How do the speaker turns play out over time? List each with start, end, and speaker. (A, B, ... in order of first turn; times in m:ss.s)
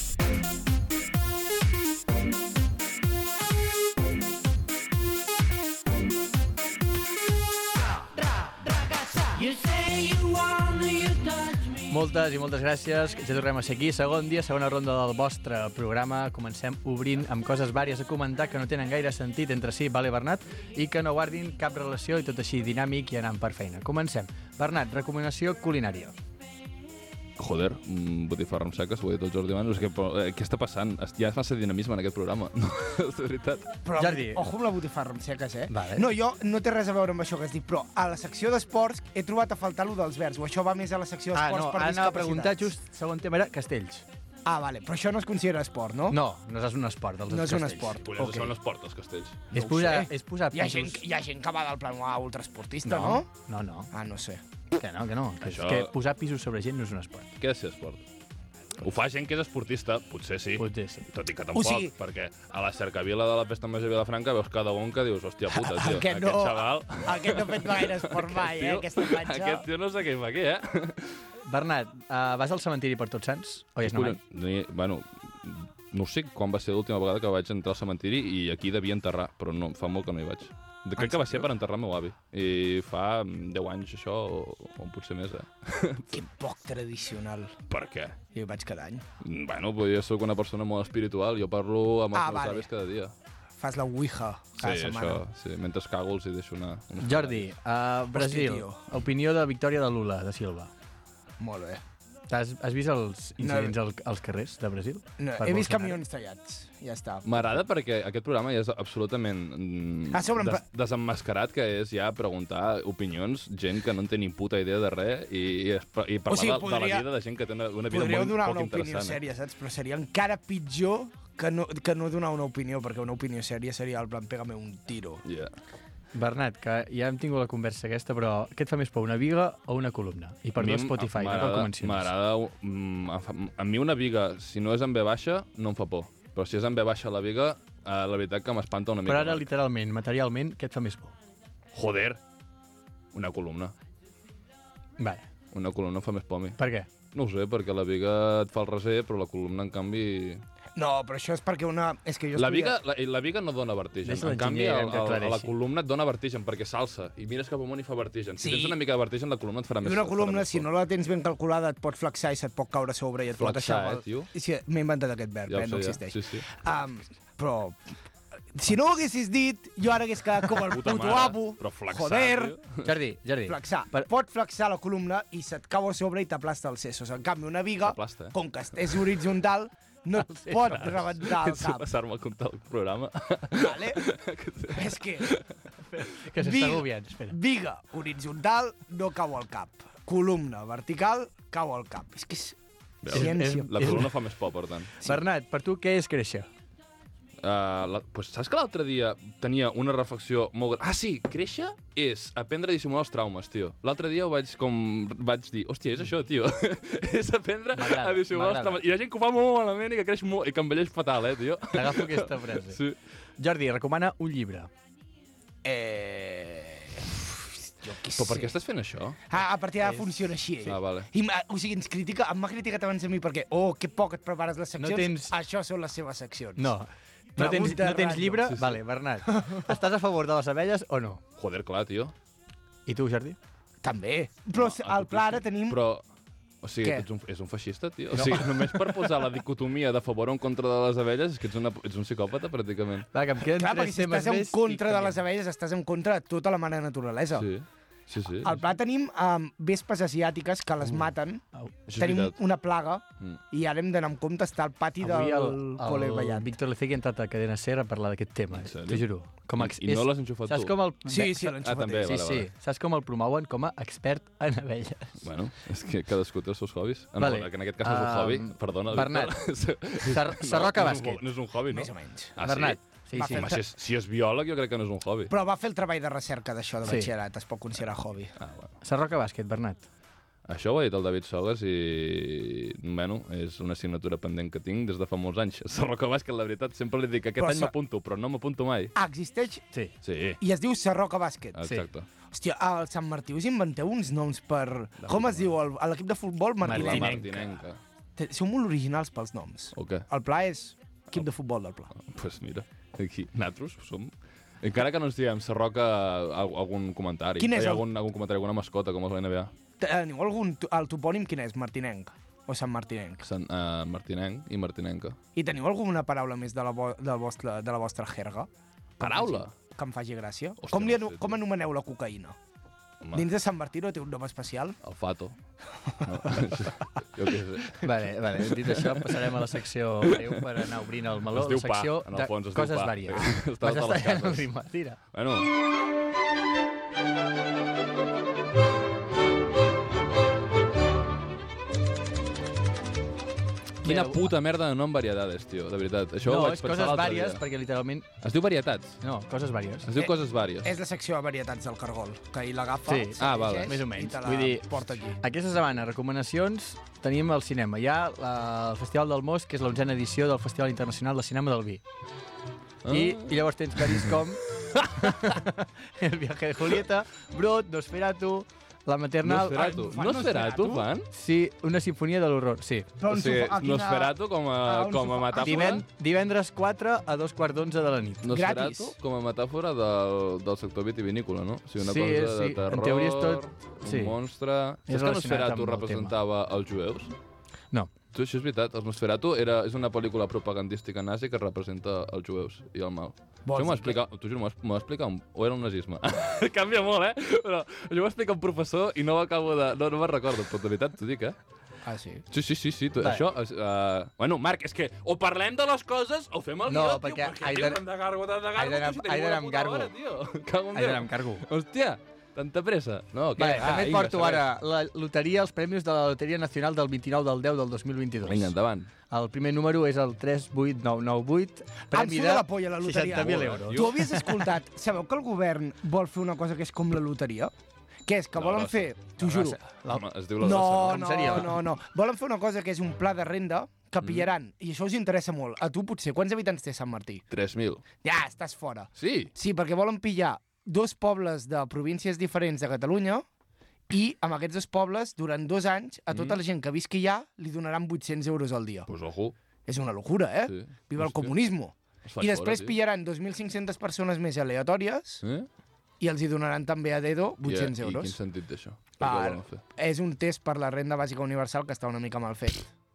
0:11.9-0:26.2 A
0:27.4-0:33.7 B
0:33.8-0:42.7 C
0:34.0-0:34.5 A
0:35.7-0:36.1 A
0:41.3-0:44.0 A
0:44.4-0:46.2 C
0:46.1-0:48.2 A
0:47.3-0:48.5 C
0:48.0-0:49.5 B
0:49.5-0:53.3 C
0:49.5-0:51.0 A
0:52.8-0:53.9 A
0:53.9-0:54.4 C
0:54.8-0:57.3 A
0:55.4-0:55.9 B
0:57.4-0:58.0 B
0:58.8-1:11.2 B
1:00.6-1:01.1 A
1:01.5-1:01.9 C
1:05.5-1:09.7 C
1:11.4-1:14.2 A
1:13.8-1:26.2 B
1:21.0-1:21.5 C
1:26.1-1:27.6 C
1:27.7-1:28.2 B
1:28.3-1:29.0 C
1:29.2-1:33.1 B
1:32.1-1:32.7 C
1:33.6-1:35.2 C
1:34.6-1:37.5 B
1:37.0-1:40.7 A
1:38.1-1:38.8 C
1:41.4-1:41.8 C
1:42.3-1:46.0 A
1:43.4-1:43.8 C
1:45.2-1:47.4 C
1:47.2-1:59.2 B
1:50.1-1:50.6 C
1:56.3-1:57.1 C
1:57.9-2:05.2 C
2:05.2-2:05.5 B
2:06.1-2:12.1 A
2:10.6-2:19.5 B
2:19.0-2:21.2 A
2:21.7-2:22.2 B
2:23.1-2:23.7 B
2:25.0-2:25.2 A
2:25.5-2:26.6 B
2:26.6-2:26.9 A
2:27.1-2:30.4 B
2:30.7-2:32.8 C
2:32.4-2:40.7 B
2:34.0-2:35.5 A
2:38.4-2:38.8 C
2:39.8-2:47.9 C
2:43.4-2:44.3 B
2:45.5-2:46.4 B
2:48.5-2:52.6 C
2:50.6-2:52.9 B
2:52.8-2:54.1 A
2:53.4-3:01.8 C
2:57.8-2:58.3 B
3:00.5-3:05.5 B
3:03.5-3:04.0 C
3:04.7-3:05.4 C
3:05.9-3:07.4 A
3:06.4-3:12.6 C
3:13.0-3:14.9 B
3:13.1-3:14.1 C
3:13.1-3:14.1 A
3:15.0-3:16.5 A
3:17.4-3:33.0 B
3:27.7-3:28.8 A
3:31.7-3:32.8 A
3:33.4-3:34.7 A
3:35.6-3:38.6 C
3:38.2-3:39.2 B
3:39.3-3:46.7 C
3:40.6-3:41.1 B
3:44.8-3:45.3 A
3:46.6-3:51.2 A
3:47.4-3:48.5 C
3:48.5-3:48.8 B
3:49.3-3:49.7 C
3:51.4-3:52.1 B
3:52.8-3:53.4 A
3:53.8-3:55.8 C
3:54.5-3:56.0 B
3:56.6-4:03.1 B
3:58.1-3:58.9 A
4:03.1-4:05.2 A
4:03.5-4:07.5 C
4:07.3-4:08.6 B
4:08.4-4:11.4 C
4:11.9-4:12.4 B
4:12.0-4:16.5 C
4:15.0-4:21.5 A
4:18.5-4:19.0 B
4:19.6-4:20.8 B
4:21.1-4:22.2 C
4:21.5-4:22.5 B
4:22.0-4:25.2 A
4:25.2-4:35.3 B
4:27.2-4:29.4 A
4:30.0-4:31.2 A
4:31.7-4:32.4 C
4:32.4-4:33.6 A
4:33.1-4:33.6 C
4:35.3-4:38.3 C
4:36.8-4:37.1 A
4:38.4-4:38.7 B
4:38.8-4:39.9 A
4:40.5-4:48.9 B
4:47.4-4:47.7 C
4:48.9-4:49.6 C
4:50.0-4:50.4 B
4:50.4-4:51.6 C
4:51.6-4:52.1 B
4:52.3-4:57.3 C
4:55.0-4:55.5 B
4:56.6-4:57.5 A
4:56.7-4:57.8 B
4:58.2-5:01.9 C
4:59.7-5:00.0 B
5:02.0-5:09.5 B
5:07.4-5:07.8 C
5:09.8-5:13.2 C
5:13.2-5:15.2 B
5:15.4-5:22.4 C
5:19.0-5:19.5 B
5:20.6-5:21.4 B
5:23.1-5:24.8 C
5:24.8-5:25.4 B
5:25.9-5:26.5 C
5:26.0-5:29.4 B
5:27.8-5:35.0 A
5:31.3-5:34.5 B
5:35.1-5:35.5 B
5:43.8-5:44.3 A
5:43.8-5:47.4 B
5:46.2-5:48.1 A
5:48.2-5:49.0 B
5:49.0-5:49.9 A
5:49.8-5:50.7 B
5:50.0-5:55.2 C
5:52.9-6:01.8 A
5:53.2-5:53.8 B
6:02.8-6:05.2 B
6:02.9-6:09.7 A
6:09.2-6:11.1 B
6:09.5-6:10.9 C
6:11.1-6:12.9 A
6:13.0-6:15.8 C
6:13.1-6:15.8 B
6:15.4-6:18.3 A
6:18.2-6:27.1 B
6:18.3-6:19.0 C
6:21.8-6:24.1 A
6:24.9-6:26.2 A
6:28.1-6:41.4 B
6:33.4-6:34.0 C
6:41.8-6:42.2 C
6:42.3-6:54.4 B
6:43.0-6:43.2 A
6:46.7-6:47.8 A
6:48.6-6:49.9 A
6:50.7-6:51.4 A
6:53.4-6:58.5 A
6:58.2-6:58.9 B
6:59.1-7:04.4 A
7:01.9-7:07.5 C
7:03.2-7:03.9 B
7:08.0-7:09.6 C
7:08.3-7:11.5 B
7:10.4-7:17.2 C
7:10.8-7:11.5 A
7:14.0-7:14.3 B
7:17.3-7:17.8 B
7:18.0-7:23.2 C
7:19.0-7:19.3 B
7:23.9-7:28.9 C
7:28.9-7:29.3 B
7:29.6-7:35.2 C
7:30.4-7:31.3 B
7:32.0-7:32.8 B
7:36.0-7:38.2 C
7:37.4-7:39.6 B
7:39.0-7:42.7 C